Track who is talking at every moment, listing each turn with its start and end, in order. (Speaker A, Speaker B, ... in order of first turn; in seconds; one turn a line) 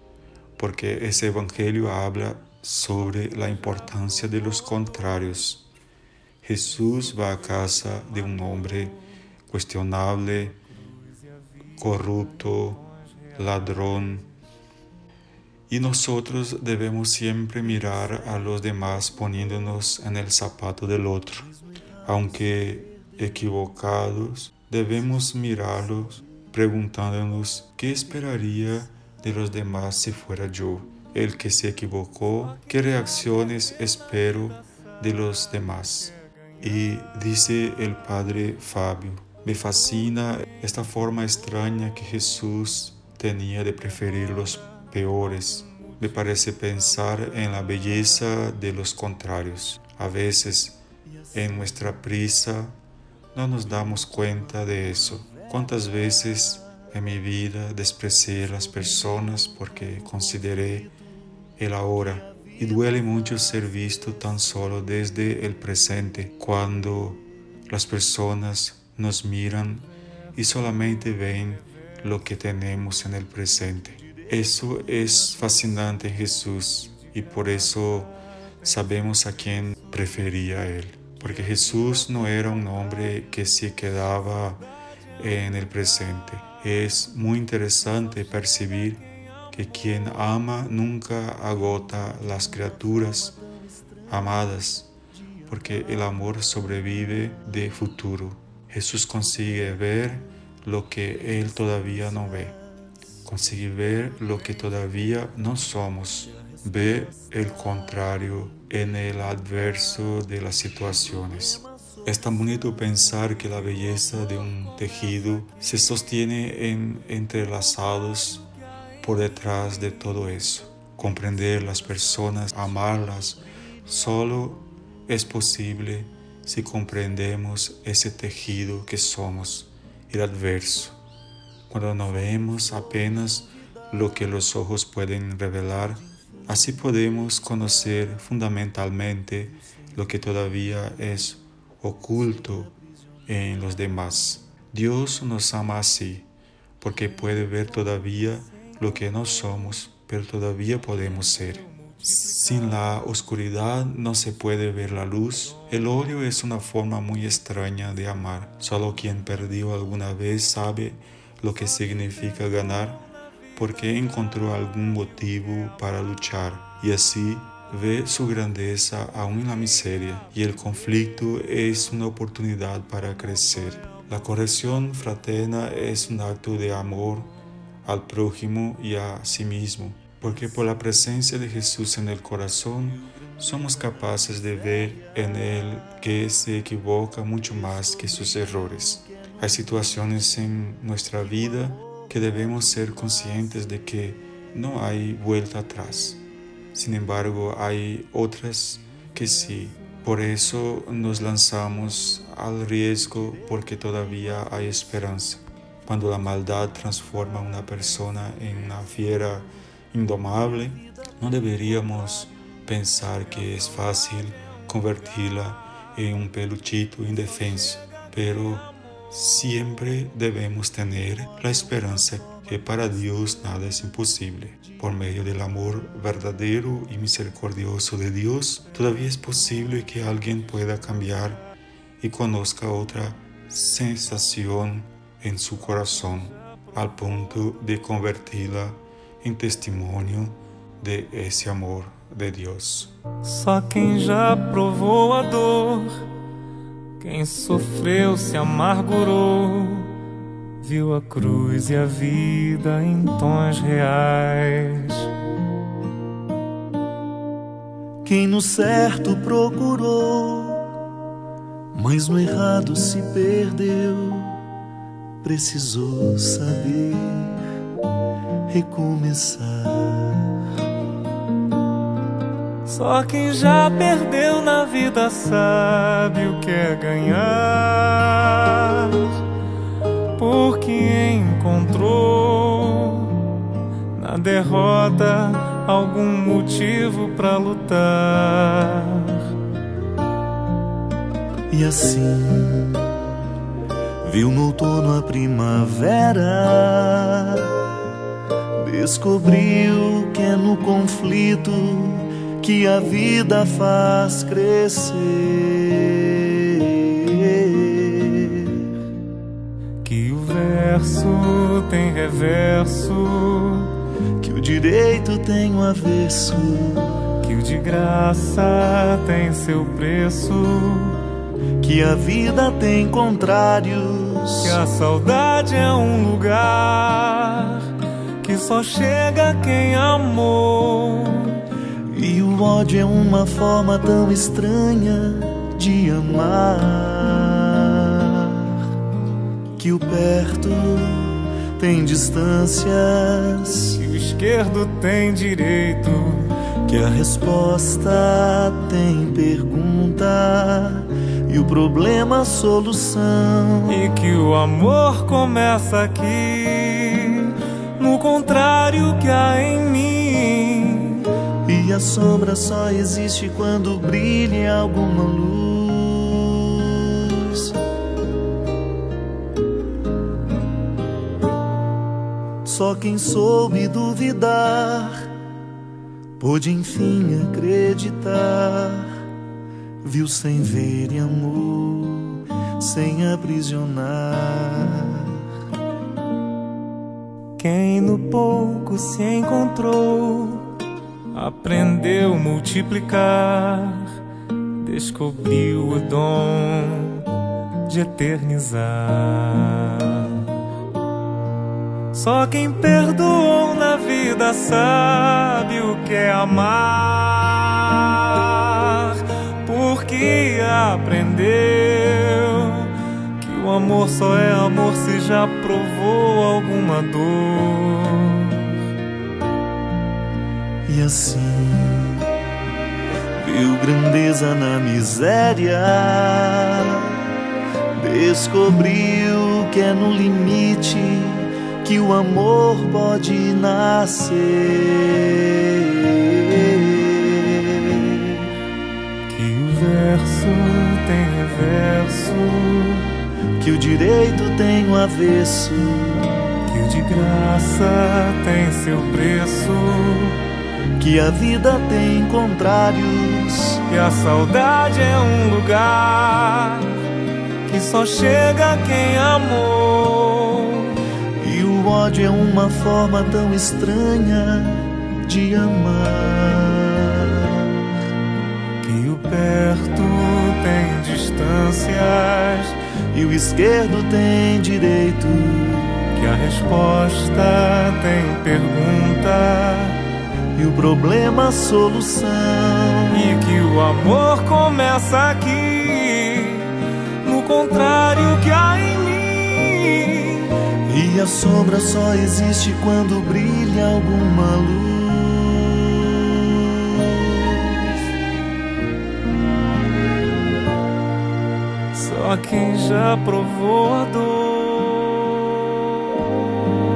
Speaker A: 0.6-5.7
Speaker A: 6.4-10.6
Speaker A: 11.8-12.8
Speaker A: 13.3-14.3
Speaker A: 15.7-21.5
Speaker A: 22.0-50.8
Speaker A: 51.3-52.8
Speaker A: 53.3-60.9
Speaker A: 61.6-84.6
Speaker A: 85.2-93.4
Speaker A: 94.1-94.9
Speaker A: 95.5-102.5
Speaker A: 103.2-118.5
Speaker A: 119.0-131.0
Speaker A: 131.7-142.7
Speaker A: 143.3-146.3
Speaker A: 146.8-177.3
Speaker A: 177.8-242.9
Speaker B: 243.2-246.1
Speaker B: 247.0-250.0
Speaker B: 250.6-255.1
Speaker C: 258.0-260.7
Speaker C: 261.7-264.4
Speaker C: 265.2-267.4
Speaker C: 268.5-270.4
Speaker B: 272.7-279.2
Speaker B: 280.1-283.3
Speaker B: 283.9-289.3
Speaker C: 291.5-292.9
Speaker C: 294.0-297.6
Speaker C: 298.6-308.7
Speaker B: 309.8-313.8
Speaker C: 314.2-317.1
Speaker B: 317.2-321.0
Speaker C: 321.6-324.6
Speaker B: 324.4-331.4
Speaker C: 331.9-338.6
Speaker C: 339.6-343.8
Speaker B: 343.8-346.3
Speaker C: 346.6-353.8
Speaker B: 353.6-361.1
Speaker C: 361.4-367.6
Speaker C: 372.4-375.1
Speaker C: 376.2-378.9
Speaker C: 379.8-385.2
Speaker B: 387.4-390.5
Speaker B: 391.1-394.0
Speaker B: 394.6-397.1
Speaker B: 397.6-400.3
Speaker B: 401.9-418.6
Speaker C: 420.6-422.1
Speaker C: 423.2-427.0
Speaker C: 427.8-438.3
Speaker B: 439.1-442.9
Speaker C: 443.4-446.1
Speaker B: 446.4-450.2
Speaker C: 450.8-453.6
Speaker B: 453.7-456.8
Speaker B: 457.4-460.8
Speaker C: 461.2-467.6
Speaker B: 468.6-472.6
Speaker C: 472.9-475.8
Speaker B: 475.9-479.8
Speaker C: 480.3-483.1
Speaker B: 482.9-490.3
Speaker C: 490.7-497.5
Speaker B: 501.7-505.5